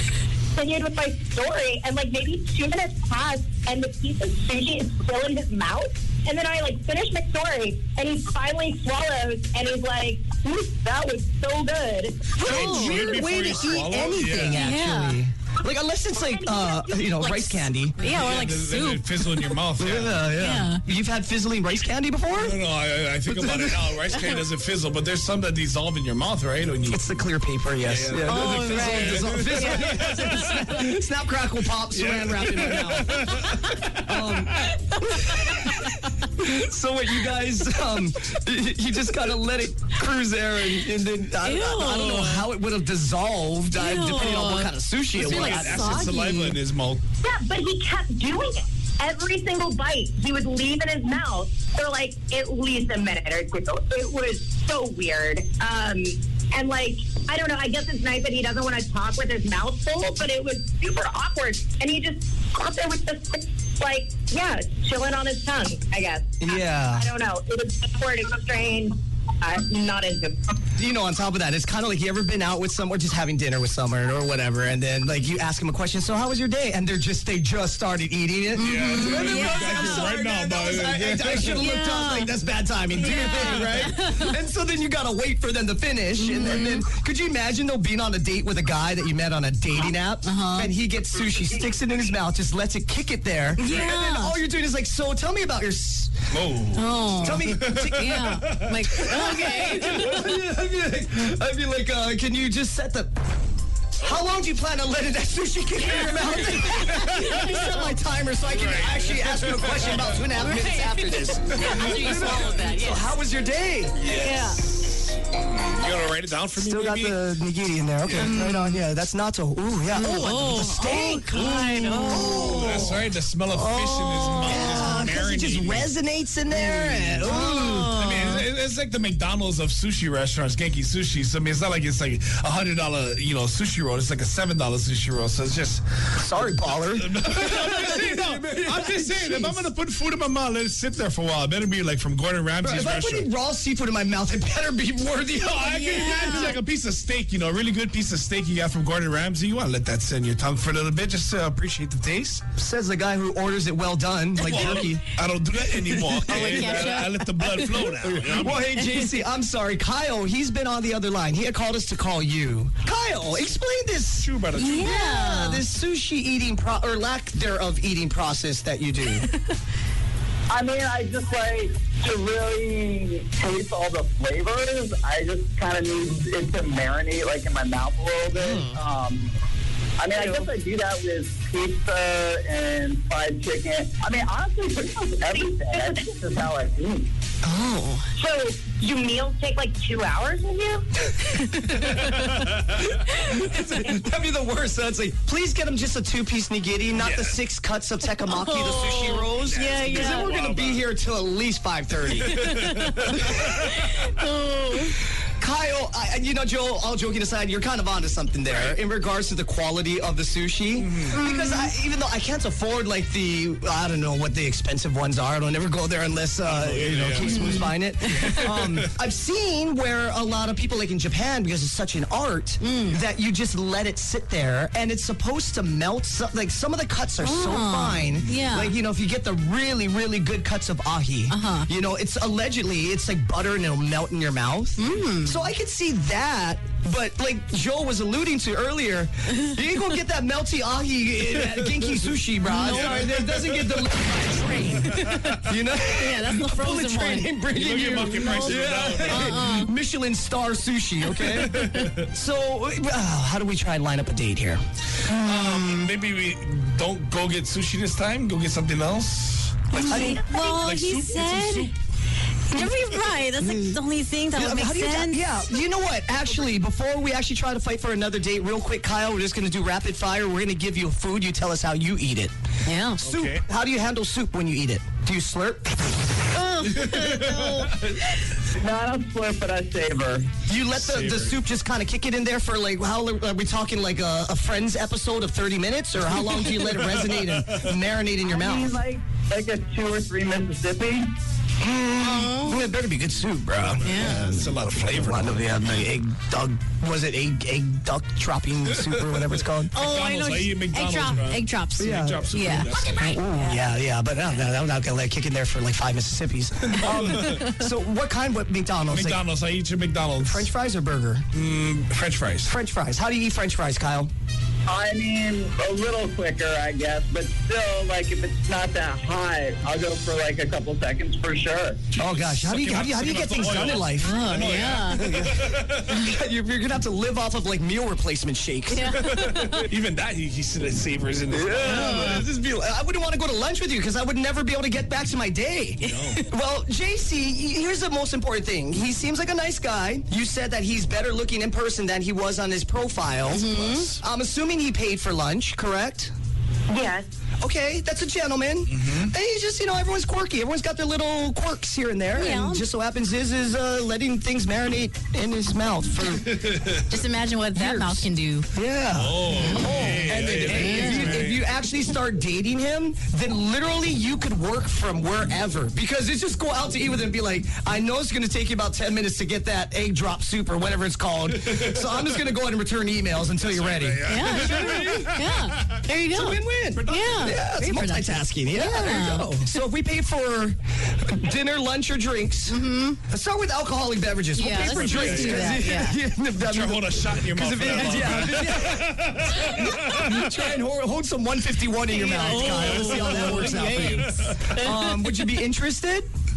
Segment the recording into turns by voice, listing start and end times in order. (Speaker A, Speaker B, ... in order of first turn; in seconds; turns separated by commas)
Speaker A: 0.5-12.4, Speaker B: 12.4-18.0, Speaker C: 12.4-14.7, Speaker D: 12.5-13.1, Speaker D: 14.5-15.2, Speaker A: 16.2-17.2, Speaker D: 17.2-19.4, Speaker C: 18.0-20.3, Speaker B: 19.8-22.6, Speaker D: 20.4-20.8, Speaker C: 22.4-27.1, Speaker B: 23.3-24.0, Speaker D: 24.1-24.4, Speaker B: 26.9-45.9, Speaker C: 27.8-30.6, Speaker D: 28.3-30.8, Speaker C: 31.9-34.1, Speaker D: 33.4-33.8, Speaker D: 34.9-35.7, Speaker D: 41.4-42.5, Speaker D: 43.7-46.6, Speaker C: 45.1-47.0, Speaker A: 47.2-70.5, Speaker B: 66.4-67.1, Speaker B: 70.8-96.2, Speaker D: 78.6-80.2, Speaker C: 78.6-81.6, Speaker D: 81.4-82.3, Speaker C: 83.0-83.7, Speaker D: 83.0-84.3, Speaker D: 86.2-86.9, Speaker D: 90.2-90.7, Speaker D: 93.6-94.4, Speaker C: 96.3-99.4, Speaker D: 96.7-100.4, Speaker B: 97.2-98.2, Speaker B: 99.0-103.1, Speaker B: 104.0-114.0, Speaker D: 105.8-107.8, Speaker C: 106.6-107.9, Speaker C: 108.5-110.2, Speaker D: 110.4-113.2, Speaker C: 111.5-112.2, Speaker C: 114.0-117.2, Speaker D: 114.2-114.6, Speaker B: 116.6-127.9, Speaker C: 118.1-118.3, Speaker D: 118.2-118.9, Speaker D: 119.9-122.9, Speaker C: 121.3-125.9, Speaker D: 124.1-125.1, Speaker C: 126.5-143.3, Speaker D: 127.2-128.5, Speaker B: 136.2-139.7, Speaker B: 142.6-145.8, Speaker C: 145.4-152.5, Speaker D: 145.7-146.6, Speaker B: 152.6-155.0, Speaker C: 154.4-158.8, Speaker D: 155.9-157.8, Speaker B: 155.9-169.3, Speaker D: 158.8-159.2, Speaker C: 164.2-164.9, Speaker D: 164.6-165.6, Speaker E: 170.5-179.3, Speaker B: 178.4-178.7, Speaker E: 180.0-187.1, Speaker A: 180.1-180.5, Speaker A: 185.3-186.1, Speaker D: 187.4-188.1, Speaker A: 188.2-190.9, Speaker D: 191.3-192.5, Speaker C: 191.8-192.9, Speaker B: 193.0-202.3, Speaker C: 197.0-197.4, Speaker D: 198.2-200.3, Speaker C: 199.4-200.8, Speaker D: 202.2-205.0, Speaker C: 202.2-203.7, Speaker B: 203.1-203.6, Speaker B: 205.4-254.6, Speaker C: 210.8-211.2, Speaker D: 211.1-211.7, Speaker C: 216.4-218.9, Speaker D: 217.2-218.4, Speaker D: 222.6-223.0, Speaker D: 227.2-228.8, Speaker C: 228.2-228.5, Speaker D: 231.3-231.7, Speaker D: 234.8-235.4, Speaker D: 242.5-243.0, Speaker C: 242.6-243.8, Speaker D: 244.9-245.4, Speaker C: 245.0-245.4, Speaker D: 245.9-249.7, Speaker C: 247.6-249.6, Speaker D: 251.2-251.9, Speaker C: 251.4-252.1, Speaker C: 255.1-261.7, Speaker D: 259.7-261.7, Speaker B: 259.8-260.2, Speaker D: 262.5-265.3, Speaker C: 262.5-263.0, Speaker B: 263.4-263.8, Speaker B: 264.4-272.3, Speaker D: 272.7-273.0, Speaker C: 273.0-273.4, Speaker B: 273.0-276.2, Speaker D: 276.3-277.8, Speaker C: 276.6-278.0, Speaker E: 278.6-280.3, Speaker B: 280.5-288.8, Speaker C: 280.8-281.4, Speaker C: 286.6-287.7, Speaker E: 288.3-291.1, Speaker B: 291.6-299.8, Speaker D: 292.0-292.6, Speaker C: 293.7-295.9, Speaker D: 293.9-294.3, Speaker D: 299.7-303.6, Speaker C: 299.8-303.0, Speaker B: 301.8-302.4, Speaker B: 303.1-309.2, Speaker C: 306.8-307.4, Speaker C: 308.9-310.5, Speaker B: 310.2-311.2, Speaker C: 311.3-312.5, Speaker B: 312.4-314.1, Speaker E: 314.7-321.8, Speaker B: 322.0-324.2, Speaker C: 322.0-325.9, Speaker D: 323.9-325.1, Speaker B: 324.9-329.1, Speaker D: 328.7-329.7, Speaker C: 328.9-332.3, Speaker B: 331.3-346.1, Speaker D: 331.6-332.2, Speaker C: 335.8-336.2, Speaker D: 335.8-336.2, Speaker D: 343.3-343.9, Speaker A: 346.7-347.1, Speaker B: 347.4-356.4, Speaker C: 348.7-349.1, Speaker D: 352.1-352.6, Speaker C: 356.2-356.9, Speaker D: 356.9-358.5, Speaker B: 357.5-375.2, Speaker C: 358.9-361.4, Speaker D: 359.4-360.0, Speaker D: 360.5-361.3, Speaker C: 371.4-372.2, Speaker C: 373.4-375.9, Speaker D: 374.1-379.4, Speaker B: 376.1-396.1, Speaker C: 376.8-377.5, Speaker D: 382.5-383.0, Speaker D: 384.3-386.0, Speaker C: 384.5-385.6, Speaker C: 386.4-390.3, Speaker D: 387.7-388.2, Speaker D: 391.9-395.3, Speaker C: 392.4-394.5